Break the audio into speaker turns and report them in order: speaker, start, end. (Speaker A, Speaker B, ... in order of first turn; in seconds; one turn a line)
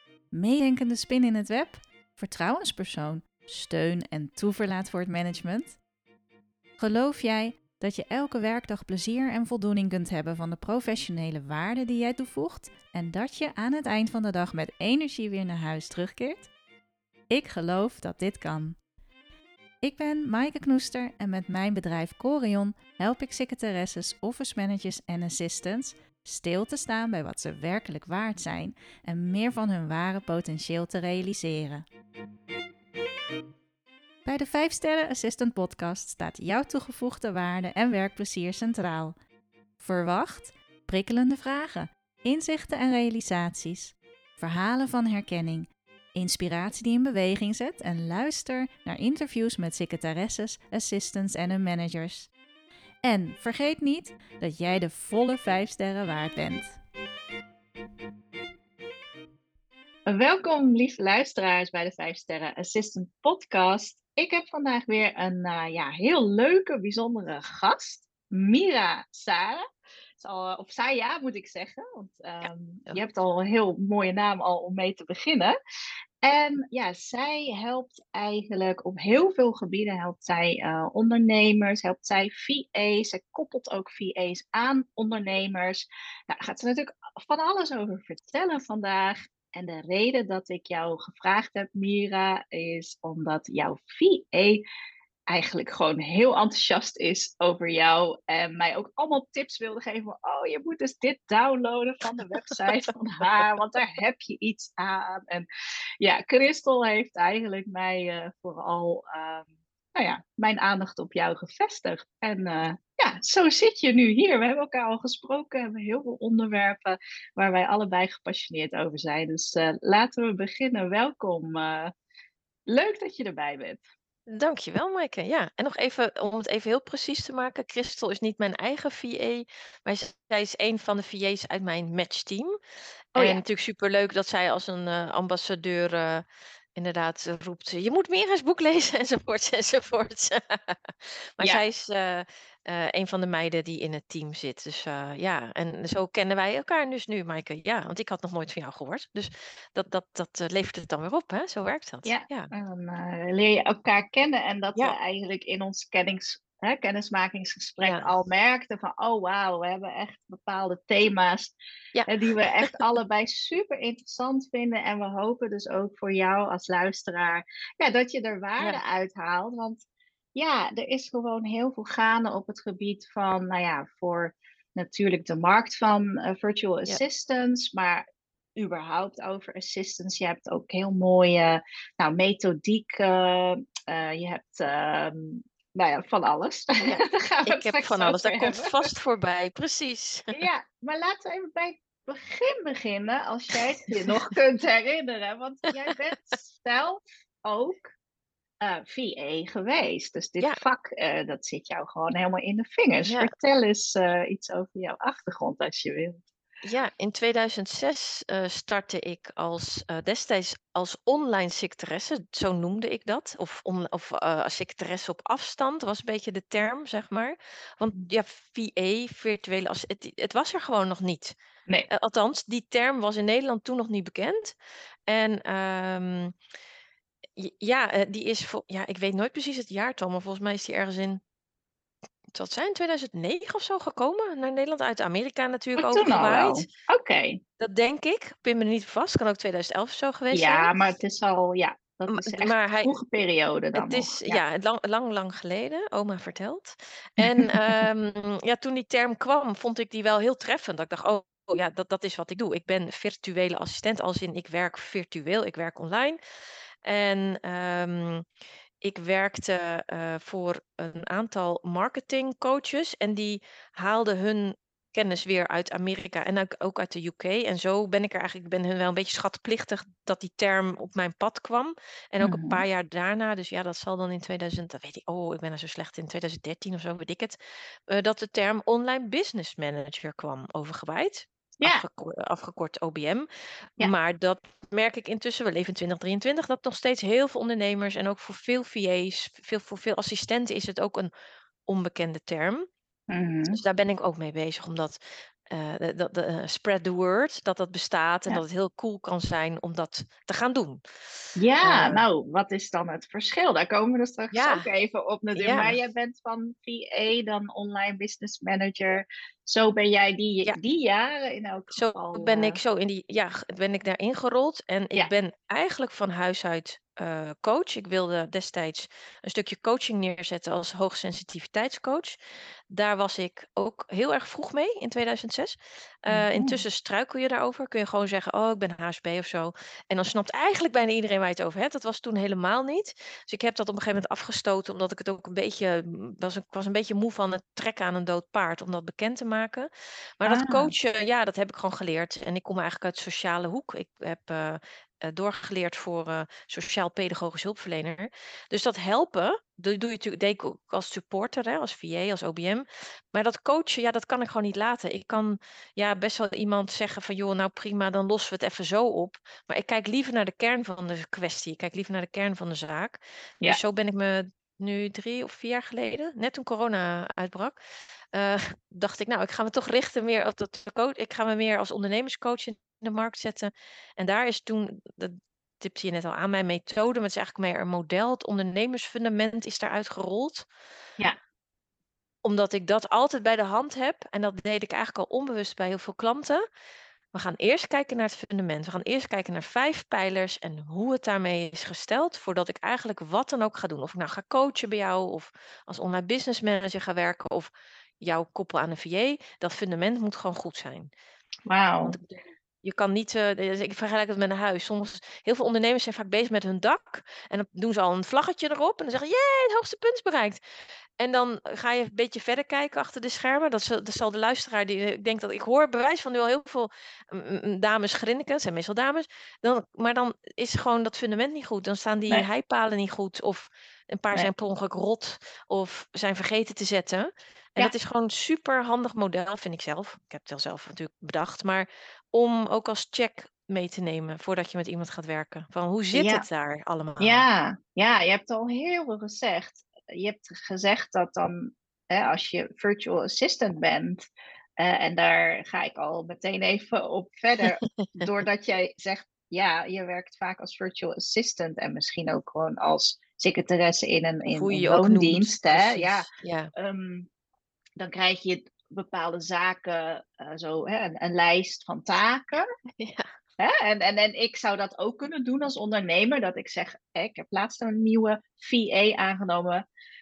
Speaker A: 0.3-5.8
Speaker A: 6.8-16.5
Speaker A: 17.3-18.8
Speaker A: 19.8-31.9
Speaker A: 34.2-39.1
Speaker A: 39.8-52.3
Speaker A: 53.0-56.8
Speaker B: 60.1-69.6
Speaker B: 70.2-75.5
Speaker B: 76.2-94.6
Speaker B: 95.3-105.5
Speaker B: 106.0-121.9
Speaker B: 122.7-123.8
Speaker C: 124.3-132.5
Speaker B: 133.2-133.4
Speaker C: 133.2-136.2
Speaker C: 136.8-152.5
Speaker B: 152.0-161.5
Speaker C: 157.8-158.1
Speaker C: 161.9-162.8
Speaker B: 162.1-169.8
Speaker B: 170.3-178.0
Speaker B: 178.6-188.9
Speaker C: 186.8-190.4
Speaker B: 190.3-197.9
Speaker B: 198.6-206.2
Speaker C: 206.6-221.3
Speaker C: 221.9-224.5
Speaker C: 225.1-226.3
Speaker C: 227.3-231.2
Speaker C: 232.3-236.7
Speaker B: 235.8-237.4
Speaker C: 237.6-240.7
Speaker B: 240.3-244.4
Speaker C: 242.1-242.9
Speaker C: 243.8-256.2
Speaker B: 247.2-247.8
Speaker C: 256.8-258.2
Speaker C: 258.8-277.4
Speaker B: 272.2-272.6
Speaker C: 277.9-283.2
Speaker C: 283.8-291.1
Speaker C: 291.7-292.6
Speaker B: 293.1-293.6
Speaker C: 293.5-295.0
Speaker C: 295.5-300.8
Speaker B: 301.4-312.6
Speaker C: 301.6-302.0
Speaker C: 304.3-304.7
Speaker C: 305.4-305.8
Speaker C: 311.7-322.1
Speaker C: 322.7-339.7
Speaker B: 326.1-326.6
Speaker C: 340.2-367.6
Speaker B: 340.2-340.7
Speaker C: 368.1-380.4
Speaker C: 382.2-386.4
Speaker C: 387.1-400.9
Speaker B: 401.5-401.9
Speaker C: 401.8-410.4
Speaker C: 411.0-437.2
Speaker B: 435.9-436.2
Speaker B: 437.0-457.1
Speaker C: 454.3-456.5
Speaker B: 457.8-462.5
Speaker C: 462.8-463.1
Speaker B: 463.4-469.6